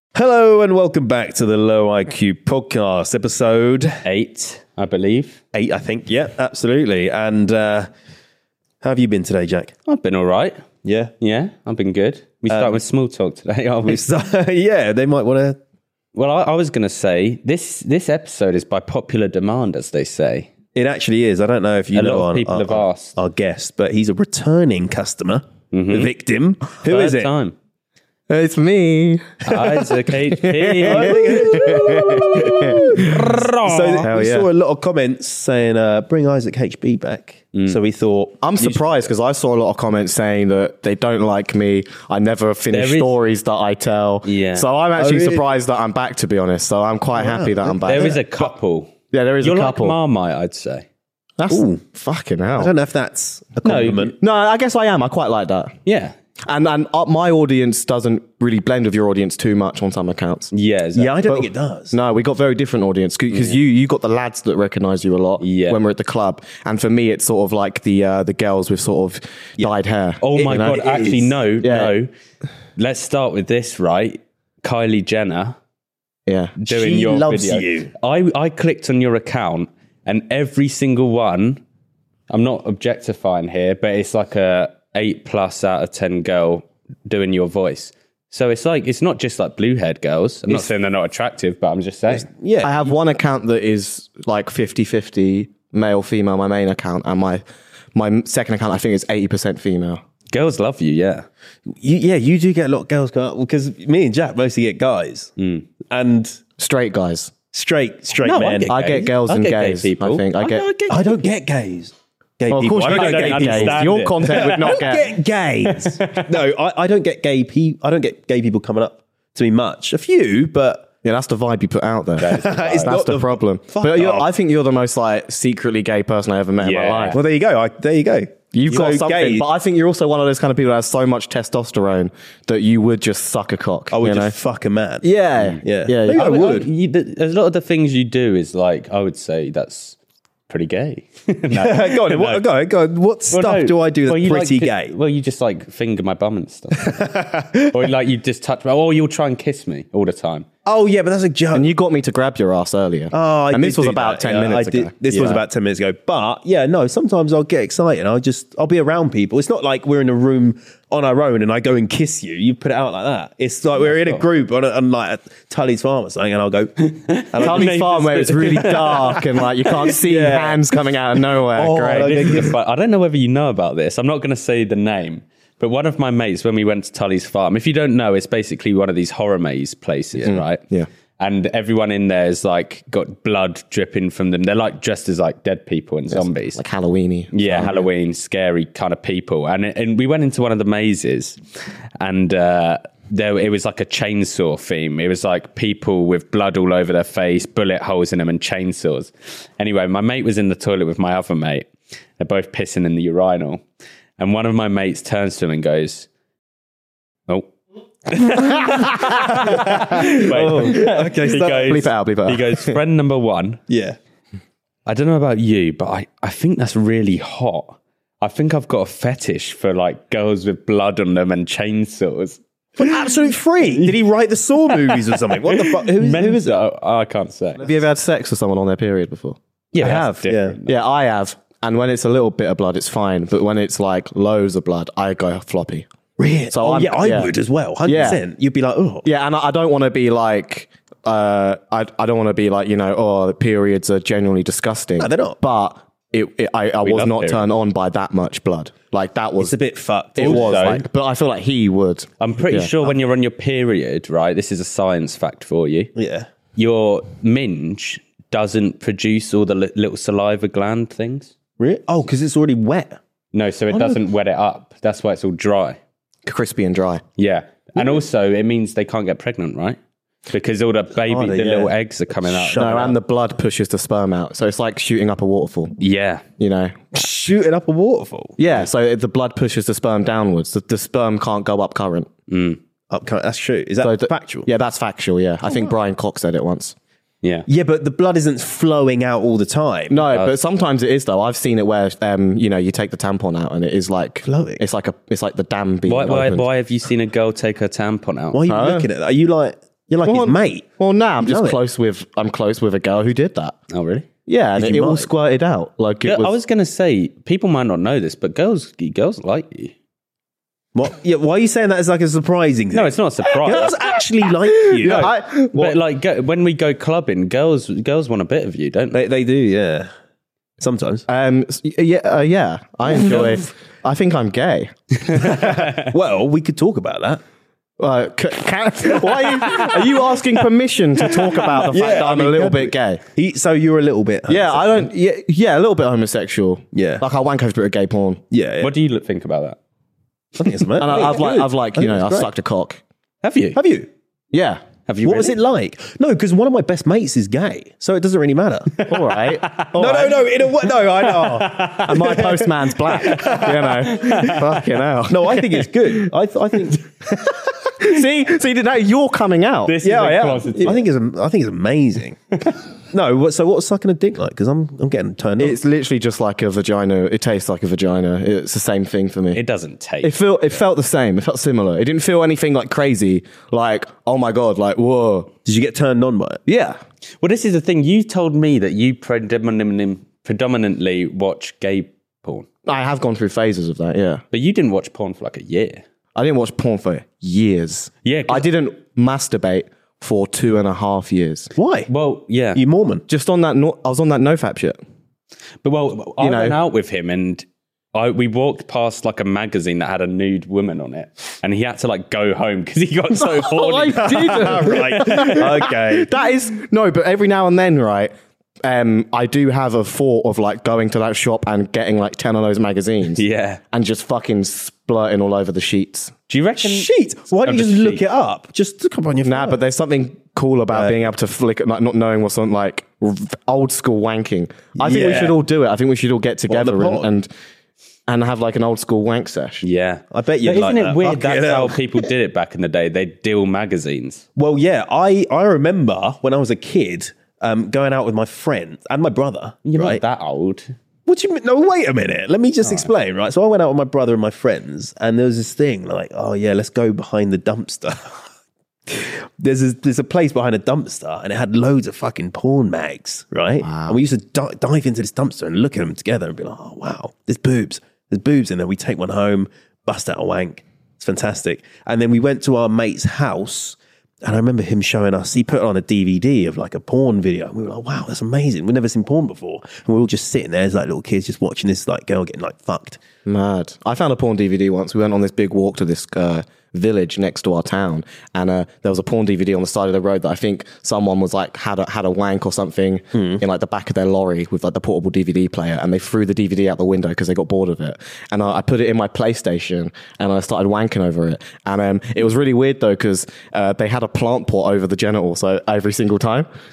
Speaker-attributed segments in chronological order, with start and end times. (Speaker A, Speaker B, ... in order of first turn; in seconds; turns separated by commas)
Speaker A: 0.1-4.0, Speaker B: 4.0-5.4, Speaker A: 5.5-7.9, Speaker A: 8.8-9.7, Speaker B: 9.9-10.7, Speaker A: 10.8-11.1, Speaker B: 11.2-14.0, Speaker A: 12.5-12.8, Speaker A: 13.9-15.6, Speaker B: 16.1-20.5, Speaker A: 20.8-27.3, Speaker B: 21.9-23.2, Speaker B: 25.7-26.1, Speaker B: 26.8-27.6, Speaker C: 28.3-33.3, Speaker B: 29.4-31.4, Speaker A: 30.8-38.8, Speaker B: 32.8-34.0, Speaker C: 34.0-34.5, Speaker C: 38.4-48.4, Speaker B: 42.7-43.2, Speaker B: 44.2-44.7, Speaker A: 45.0-45.5, Speaker A: 47.2-48.2, Speaker B: 47.8-50.9, Speaker C: 49.1-50.0, Speaker C: 51.4-52.7, Speaker A: 51.5-51.8, Speaker A: 52.6-54.2, Speaker B: 53.6-54.1, Speaker C: 54.2-55.7, Speaker B: 55.9-56.1, Speaker C: 56.5-60.5, Speaker B: 60.5-61.2, Speaker A: 61.0-62.0, Speaker C: 61.3-70.8, Speaker B: 63.3-63.6, Speaker B: 65.4-65.8, Speaker B: 70.2-72.1, Speaker A: 70.4-71.3, Speaker C: 71.6-71.9, Speaker B: 72.8-75.6, Speaker C: 76.3-76.5, Speaker B: 76.6-81.6, Speaker A: 76.7-77.9, Speaker B: 82.3-92.3, Speaker A: 92.1-92.9, Speaker C: 92.6-100.0, Speaker B: 100.3-101.3, Speaker A: 101.7-105.3, Speaker B: 105.4-105.7, Speaker A: 105.9-106.4, Speaker C: 106.6-107.3, Speaker A: 107.5-108.9, Speaker B: 108.2-111.2, Speaker C: 108.7-110.7, Speaker A: 110.9-120.9, Speaker C: 112.5-115.1, Speaker B: 112.8-115.0, Speaker B: 115.7-116.3, Speaker C: 121.0-127.2, Speaker B: 122.2-122.9, Speaker A: 122.2-124.3, Speaker B: 126.6-127.2, Speaker A: 127.1-129.5, Speaker C: 128.5-134.3, Speaker A: 133.9-135.1, Speaker C: 135.0-136.3, Speaker B: 135.4-140.0, Speaker A: 135.6-136.7, Speaker B: 140.5-142.4, Speaker A: 141.5-144.9, Speaker B: 143.3-147.0, Speaker A: 146.8-147.8, Speaker B: 147.7-150.5, Speaker A: 150.7-151.7, Speaker C: 151.5-154.9, Speaker A: 153.1-166.8, Speaker B: 155.1-155.4, Speaker B: 163.8-164.2, Speaker B: 166.8-169.9, Speaker A: 167.3-167.8, Speaker C: 167.4-172.4, Speaker A: 168.7-169.2, Speaker A: 169.9-170.7, Speaker A: 171.5-172.5, Speaker B: 171.7-180.6, Speaker C: 180.3-180.9, Speaker B: 181.2-186.6, Speaker C: 186.1-187.8, Speaker B: 187.3-191.4, Speaker B: 192.0-203.6, Speaker B: 204.2-206.1, Speaker B: 208.1-213.6, Speaker A: 208.2-208.7, Speaker C: 208.6-212.8, Speaker A: 209.4-211.9, Speaker A: 213.7-214.0, Speaker B: 214.9-222.9, Speaker A: 222.8-226.6, Speaker B: 224.9-227.7, Speaker C: 227.6-229.4, Speaker B: 229.7-230.8, Speaker A: 229.8-230.6, Speaker C: 230.7-235.9, Speaker A: 236.2-239.1, Speaker C: 236.5-237.3, Speaker C: 237.8-238.2, Speaker C: 239.1-249.6, Speaker A: 245.0-245.4, Speaker B: 246.8-247.4, Speaker A: 249.4-250.8, Speaker B: 250.2-250.8, Speaker C: 250.2-252.7, Speaker B: 252.2-255.9, Speaker A: 256.0-256.3, Speaker B: 256.6-261.3, Speaker A: 261.6-263.0, Speaker B: 263.3-265.8, Speaker A: 263.7-264.0, Speaker C: 266.3-267.0, Speaker B: 267.2-269.8, Speaker B: 270.3-272.9, Speaker A: 271.0-272.9, Speaker C: 272.6-275.8, Speaker B: 275.8-276.2, Speaker C: 276.4-277.0, Speaker A: 276.9-278.6, Speaker C: 278.4-282.1, Speaker B: 282.3-282.6, Speaker A: 282.9-284.5, Speaker C: 283.8-286.8, Speaker A: 285.5-285.7, Speaker A: 287.5-290.0, Speaker C: 289.9-296.5, Speaker B: 290.1-290.4, Speaker A: 294.2-294.6, Speaker B: 295.9-298.4, Speaker A: 298.3-300.7, Speaker C: 298.5-298.9, Speaker C: 300.0-303.6, Speaker A: 301.2-301.6, Speaker B: 303.7-304.1, Speaker C: 304.3-306.3, Speaker A: 304.6-305.1, Speaker B: 306.1-309.8, Speaker A: 310.8-315.1, Speaker B: 312.7-313.9, Speaker C: 314.6-315.8, Speaker B: 314.8-319.0, Speaker A: 318.9-319.9, Speaker A: 320.6-321.1, Speaker C: 321.1-324.7, Speaker A: 322.9-323.4, Speaker B: 325.0-325.9, Speaker A: 325.2-327.2, Speaker C: 327.8-333.0, Speaker A: 331.6-334.9, Speaker C: 334.3-338.2, Speaker A: 336.7-337.1, Speaker A: 338.3-338.7, Speaker B: 338.6-339.6, Speaker A: 340.4-342.3, Speaker C: 340.8-342.8, Speaker B: 343.2-343.6, Speaker A: 343.5-343.9, Speaker C: 344.3-344.6, Speaker B: 344.9-345.4, Speaker A: 345.0-348.9, Speaker C: 348.9-350.1, Speaker B: 348.9-350.2, Speaker A: 349.7-352.3, Speaker B: 351.0-354.6, Speaker C: 351.9-356.0, Speaker A: 353.1-353.6, Speaker A: 355.1-356.9, Speaker C: 357.1-360.1, Speaker B: 359.7-360.8, Speaker A: 359.8-362.4, Speaker A: 362.9-365.6, Speaker C: 365.4-369.4, Speaker B: 369.3-370.2, Speaker C: 370.0-375.3, Speaker A: 375.4-376.4, Speaker C: 376.5-376.8, Speaker B: 377.2-382.5, Speaker C: 382.7-384.2, Speaker B: 384.3-385.8, Speaker C: 386.1-391.5, Speaker B: 388.0-388.5, Speaker A: 391.6-391.9, Speaker B: 391.9-392.6, Speaker A: 392.6-393.1, Speaker C: 393.1-394.8, Speaker B: 395.6-405.4, Speaker C: 396.2-396.6, Speaker C: 403.1-408.1, Speaker A: 404.0-406.1, Speaker C: 408.6-416.1, Speaker B: 413.2-413.6, Speaker B: 416.3-416.9, Speaker A: 416.6-419.6, Speaker B: 417.4-418.0, Speaker C: 419.2-427.3, Speaker A: 420.7-421.1, Speaker A: 424.8-425.4, Speaker A: 426.5-427.1, Speaker C: 428.1-429.6, Speaker B: 429.6-434.2, Speaker A: 430.1-431.8, Speaker A: 434.4-440.0, Speaker B: 439.6-440.7, Speaker A: 441.1-448.3, Speaker B: 442.6-442.9, Speaker A: 448.9-473.0, Speaker C: 453.6-454.0, Speaker C: 473.3-496.5, Speaker A: 483.1-483.4